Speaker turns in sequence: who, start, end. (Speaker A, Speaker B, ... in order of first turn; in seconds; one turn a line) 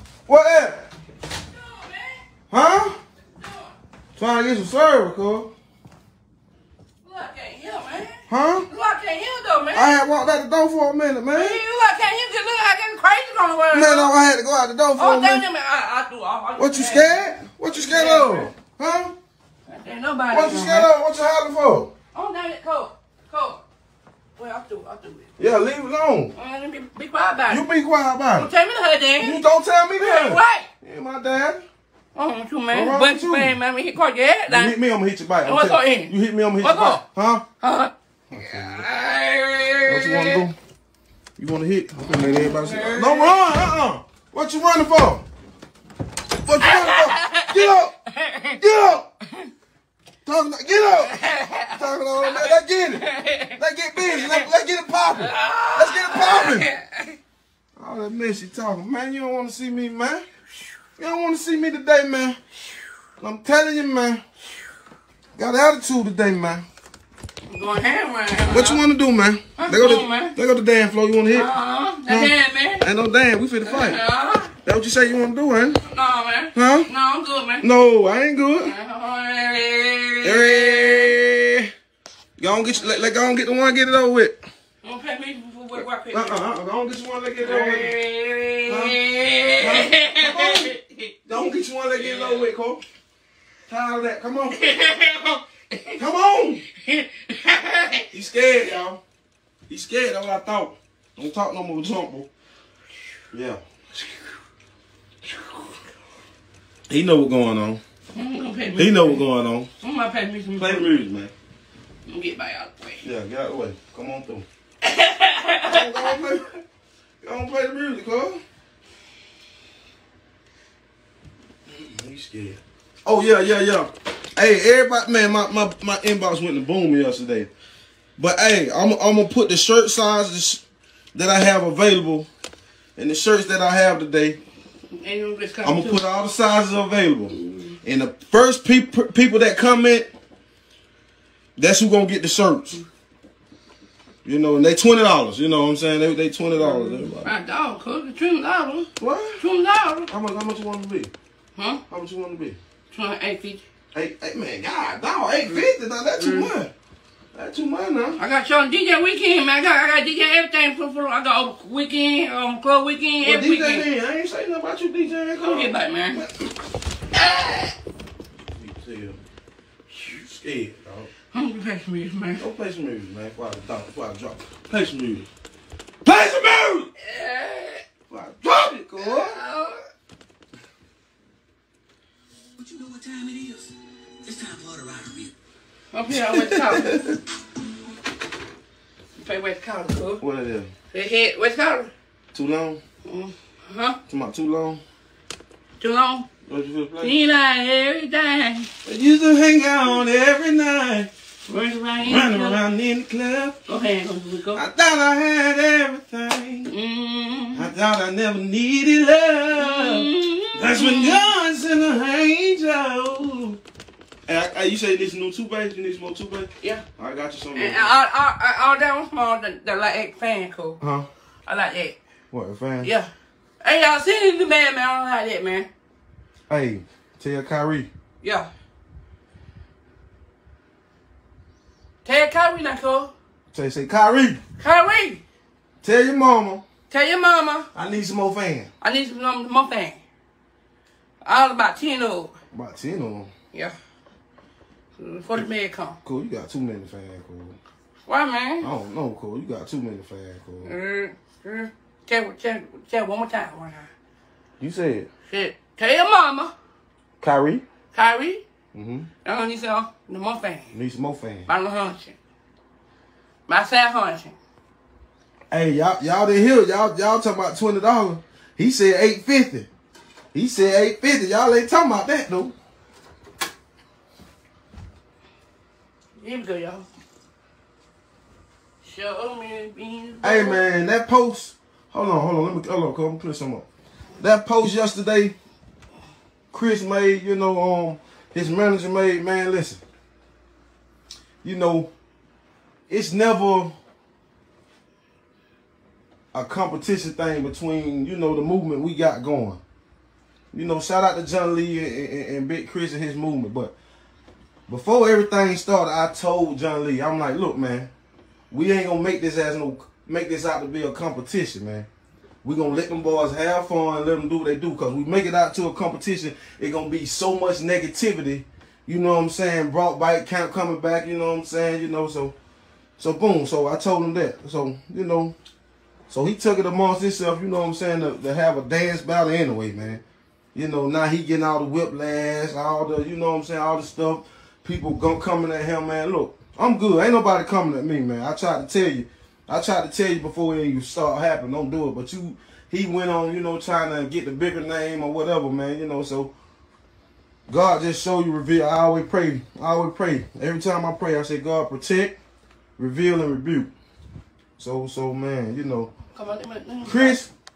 Speaker A: 0.3-0.9
Speaker B: 1.4-2.2
Speaker A: 2.5-3.0
Speaker B: 3.3-3.7
Speaker A: 4.2-5.5
Speaker B: 7.0-8.2
Speaker A: 8.3-8.7
Speaker B: 8.7-9.9
Speaker A: 9.7-11.6
Speaker B: 11.3-14.1
Speaker A: 13.7-15.4
Speaker B: 15.0-18.5
Speaker A: 16.6-19.1
Speaker B: 19.7-20.9
Speaker A: 20.3-21.9
Speaker B: 22.1-23.6
Speaker B: 24.4-25.3
Speaker A: 25.4-26.3
Speaker B: 26.4-27.6
Speaker A: 27.5-28.5
Speaker B: 28.4-29.4
Speaker A: 29.2-31.6
Speaker B: 30.0-30.7
Speaker B: 32.1-34.8
Speaker A: 32.7-33.6
Speaker A: 34.5-37.4
Speaker B: 35.4-37.0
Speaker B: 37.6-40.4
Speaker A: 38.3-38.9
Speaker A: 39.9-40.5
Speaker A: 41.4-45.2
Speaker B: 42.1-43.5
Speaker A: 46.4-48.0
Speaker B: 46.6-48.6
Speaker A: 48.5-49.1
Speaker A: 50.2-56.7
Speaker B: 51.0-54.5
Speaker B: 55.2-57.2
Speaker A: 57.8-60.2
Speaker A: 61.0-62.4
Speaker A: 63.2-64.2
Speaker A: 65.3-66.7
Speaker B: 67.5-68.8
Speaker A: 68.5-71.5
Speaker B: 69.6-70.3
Speaker B: 71.3-72.9
Speaker A: 72.0-74.0
Speaker B: 73.6-74.5
Speaker A: 74.6-75.8
Speaker B: 75.8-77.7
Speaker A: 76.5-76.9
Speaker A: 77.6-78.7
Speaker B: 78.6-81.2
Speaker A: 80.2-81.7
Speaker A: 82.4-84.4
Speaker B: 84.8-86.5
Speaker A: 85.8-87.9
Speaker B: 87.4-91.3
Speaker A: 88.7-89.0
Speaker A: 89.6-90.8
Speaker A: 91.3-92.8
Speaker B: 91.9-92.5
Speaker A: 93.7-94.6
Speaker B: 94.5-96.0
Speaker A: 96.0-96.6
Speaker B: 96.9-98.0
Speaker A: 98.1-99.0
Speaker A: 99.7-102.3
Speaker A: 103.3-103.6
Speaker A: 106.9-107.8
Speaker B: 108.1-109.2
Speaker A: 108.7-109.7
Speaker B: 109.8-110.9
Speaker A: 110.5-111.3
Speaker B: 112.1-113.0
Speaker A: 113.0-114.5
Speaker B: 114.8-116.2
Speaker A: 115.6-116.5
Speaker A: 117.2-118.4
Speaker A: 121.7-127.5
Speaker A: 128.2-132.3
Speaker A: 132.9-134.4
Speaker B: 134.9-136.0
Speaker A: 135.6-140.1
Speaker B: 137.3-137.8
Speaker A: 141.6-142.8
Speaker A: 144.2-147.3
Speaker B: 146.6-150.1
Speaker A: 149.0-149.4
Speaker A: 150.1-151.1
Speaker B: 151.6-151.8
Speaker A: 151.9-152.6
Speaker B: 152.9-153.6
Speaker A: 153.9-156.7
Speaker B: 156.2-156.5
Speaker A: 157.3-158.2
Speaker B: 158.2-163.9
Speaker A: 163.2-166.5
Speaker B: 165.5-166.2
Speaker B: 167.1-167.7
Speaker A: 168.5-169.2
Speaker A: 170.0-171.1
Speaker B: 171.3-172.4
Speaker A: 172.4-175.3
Speaker A: 176.0-176.9
Speaker B: 177.0-177.8
Speaker A: 178.1-179.4
Speaker B: 179.0-179.8
Speaker C: 182.6-185.3
Speaker B: 185.9-187.1
Speaker A: 186.1-187.1
Speaker B: 189.2-190.2
Speaker A: 190.2-190.7
Speaker B: 190.9-191.9
Speaker A: 192.3-192.8
Speaker B: 193.0-194.0
Speaker A: 194.1-194.8
Speaker B: 195.8-196.3
Speaker A: 196.5-197.1
Speaker B: 197.0-198.7
Speaker A: 198.8-201.1
Speaker B: 201.5-202.6
Speaker A: 202.0-203.6
Speaker B: 203.7-204.6
Speaker A: 204.5-206.7
Speaker B: 206.7-207.7
Speaker A: 207.5-213.6
Speaker B: 209.6-211.2
Speaker A: 214.2-217.9
Speaker B: 217.5-220.8
Speaker A: 220.8-221.1
Speaker B: 221.4-222.0
Speaker A: 222.3-222.9
Speaker B: 222.8-225.7
Speaker A: 226.5-227.9
Speaker B: 228.2-228.5
Speaker B: 232.0-233.1
Speaker A: 233.5-234.4
Speaker B: 234.6-235.2
Speaker A: 235.8-236.6
Speaker B: 236.9-237.7
Speaker A: 237.7-238.7
Speaker B: 238.8-240.0
Speaker B: 241.2-242.3
Speaker A: 242.5-243.3
Speaker B: 245.0-246.0
Speaker A: 246.0-247.6
Speaker B: 248.1-248.7
Speaker A: 248.6-250.7
Speaker B: 250.6-253.9
Speaker A: 254.6-255.1
Speaker B: 255.3-256.5
Speaker A: 257.2-257.6
Speaker B: 257.9-258.4
Speaker A: 258.7-259.1
Speaker B: 259.2-260.7
Speaker A: 260.7-261.5
Speaker B: 261.5-262.2
Speaker B: 263.5-264.4
Speaker A: 265.5-269.7
Speaker A: 270.3-272.5
Speaker B: 276.2-276.9
Speaker B: 278.8-280.6
Speaker A: 280.2-283.7
Speaker A: 284.2-285.4
Speaker A: 286.5-289.8
Speaker A: 291.4-291.9
Speaker A: 292.9-293.8
Speaker A: 296.3-299.6
Speaker A: 300.5-303.8
Speaker A: 304.7-307.9
Speaker A: 308.5-311.9
Speaker A: 312.4-322.3
Speaker A: 323.0-325.3
Speaker A: 326.1-330.0
Speaker A: 330.5-346.3
Speaker A: 347.5-352.1
Speaker A: 352.8-353.7
Speaker A: 354.6-355.9
Speaker B: 356.1-357.2
Speaker A: 356.8-357.3